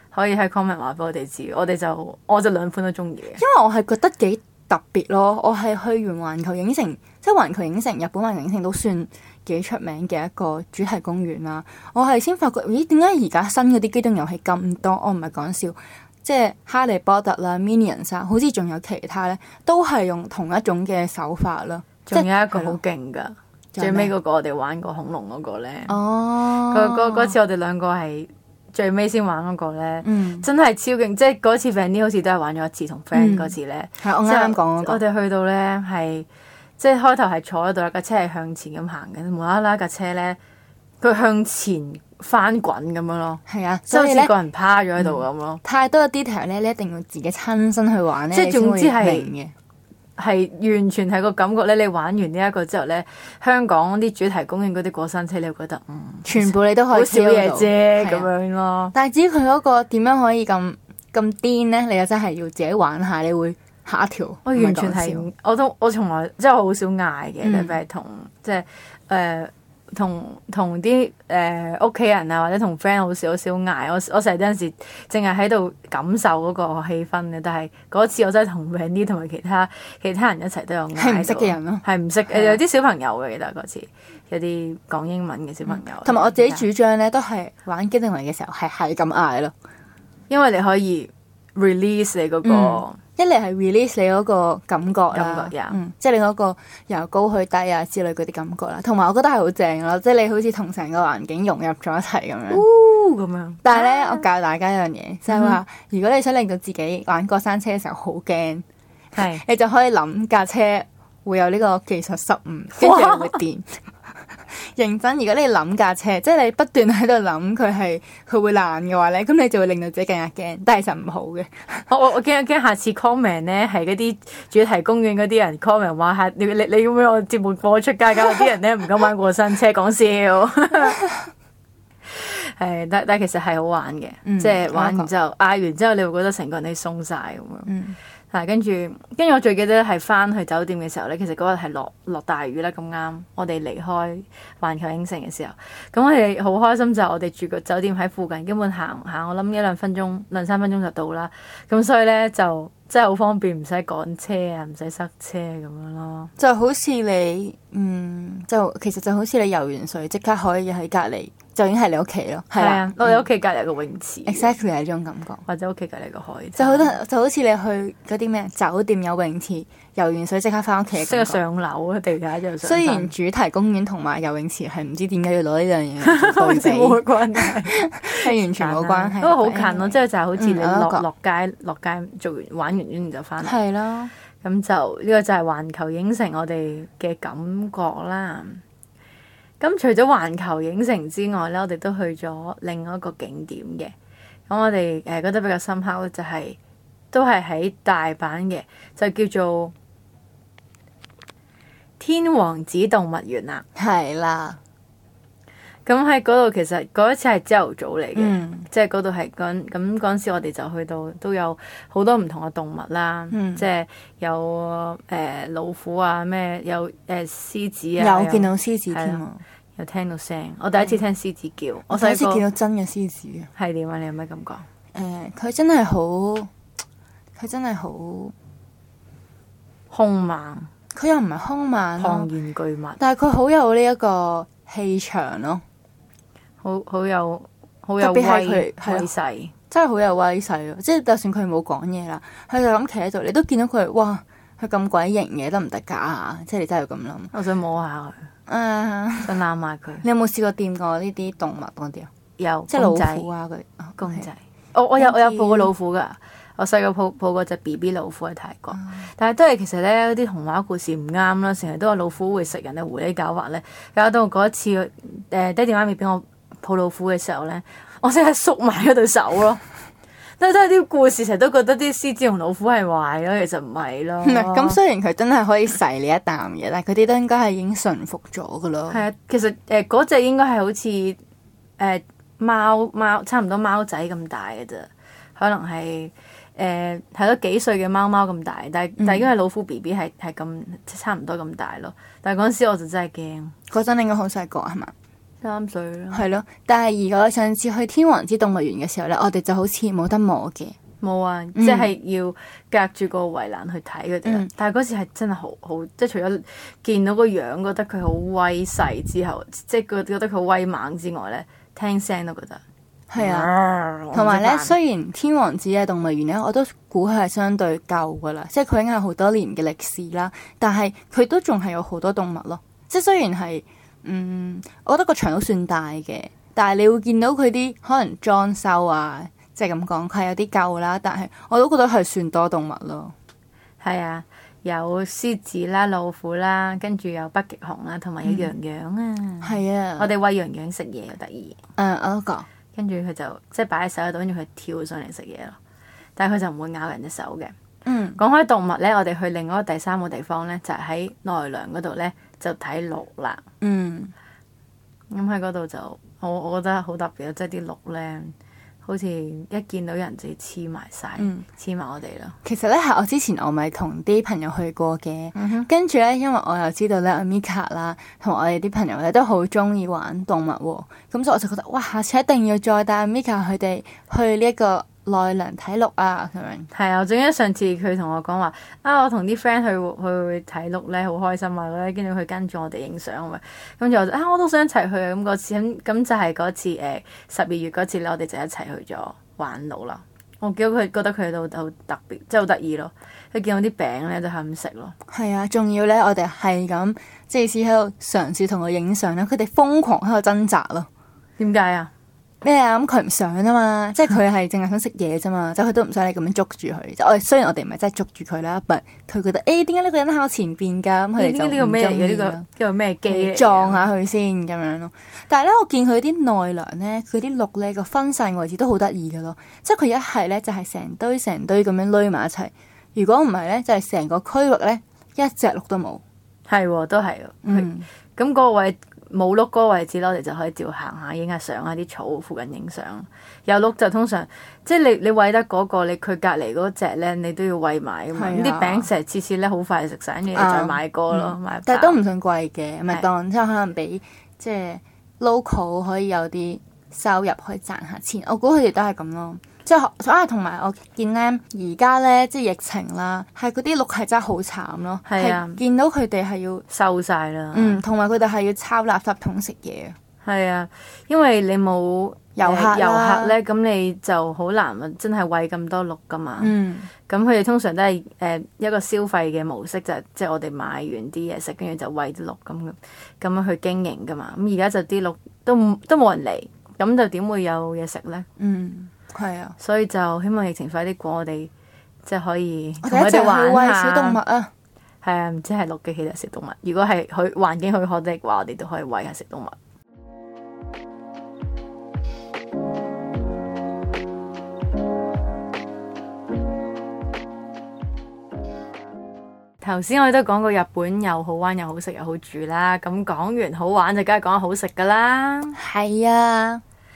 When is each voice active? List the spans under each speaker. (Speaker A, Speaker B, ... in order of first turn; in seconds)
Speaker A: 0.1-3.4, 22.1-26.0, 26.6-36.3, 36.8-40.4, 41.0-45.6, 48.3-49.3, 50.2-58.9, 64.5-86.7, 90.3-93.0, 95.1-95.8, 102.5-104.2, 105.3-105.6, 109.2-109.4, 112.8-113.4, 121.9-131.0, 132.1-137.7, 138.3-156.3, 162.6-164.6, 165.5-166.9, 171.0-173.1, 176.0-183.6, 184.4-188.6, 189.6-193.9, 194.5-196.6, 197.1-199.7, 202.0-203.7, 205.9-219.2, 219.8-222.4, 223.6-224.7, 229.9-230.7, 232.0-233.0, 236.6-239.5, 247.3-248.2, 249.2-250.0, 252.4-253.3, 254.0-269.6, 270.4-274.8, 278.9-281.2, 281.8-293.5, 295.4-296.3, 301.0-312.6, 313.2-314.8, 333.8-341.6, 342.7-345.6, 346.2-347.5, 348.2-353.4, 355.1-362.4, 365.4-365.7, 376.7-394.9, 401.4-401.9, 411.2-413.9, 426.5-442.0, 455.1-455.6, 456.7-457.8, 460.2-466.5, 467.1-478.3, 479.6-481.5, 482.1-484.2, 485.0-489.6, 499.6-505.6
Speaker B: 3.4-22.8, 23.7-24.1, 25.9-27.3, 30.0-30.5, 33.1-35.0, 43.5-44.3, 45.0-49.5, 56.2-58.3, 58.9-65.3, 67.4-67.8, 81.0-82.6, 85.7-89.5, 92.4-102.6, 103.6-108.7, 109.2-121.9, 134.3-135.1, 137.7-138.0, 156.4-163.2, 164.3-165.4, 166.6-171.4, 172.6-181.1, 183.4-184.1, 203.8-204.6, 208.2-208.7, 213.3-213.6, 218.0-219.4, 221.9-223.5, 224.9-226.5, 227.4-228.3, 230.9-232.3, 233.0-235.6, 238.0-239.1, 239.7-247.3, 248.5-249.4, 250.0-252.1, 252.7-254.3, 255.0-255.7, 274.2-279.0, 289.0-289.3, 293.7-294.9, 296.1-300.8, 301.6-301.9, 313.1-313.5, 314.1-333.1, 338.2-338.5, 339.4-340.1, 341.8-342.5, 347.9-348.2, 353.6-354.1, 362.4-376.7, 395.1-400.9, 402.4-412.4, 413.1-426.0, 427.5-427.9, 438.1-438.9, 440.4-456.6, 457.5-460.0, 462.4-463.4, 466.4-466.9, 478.4-479.6, 482.8-484.5, 505.6-506.6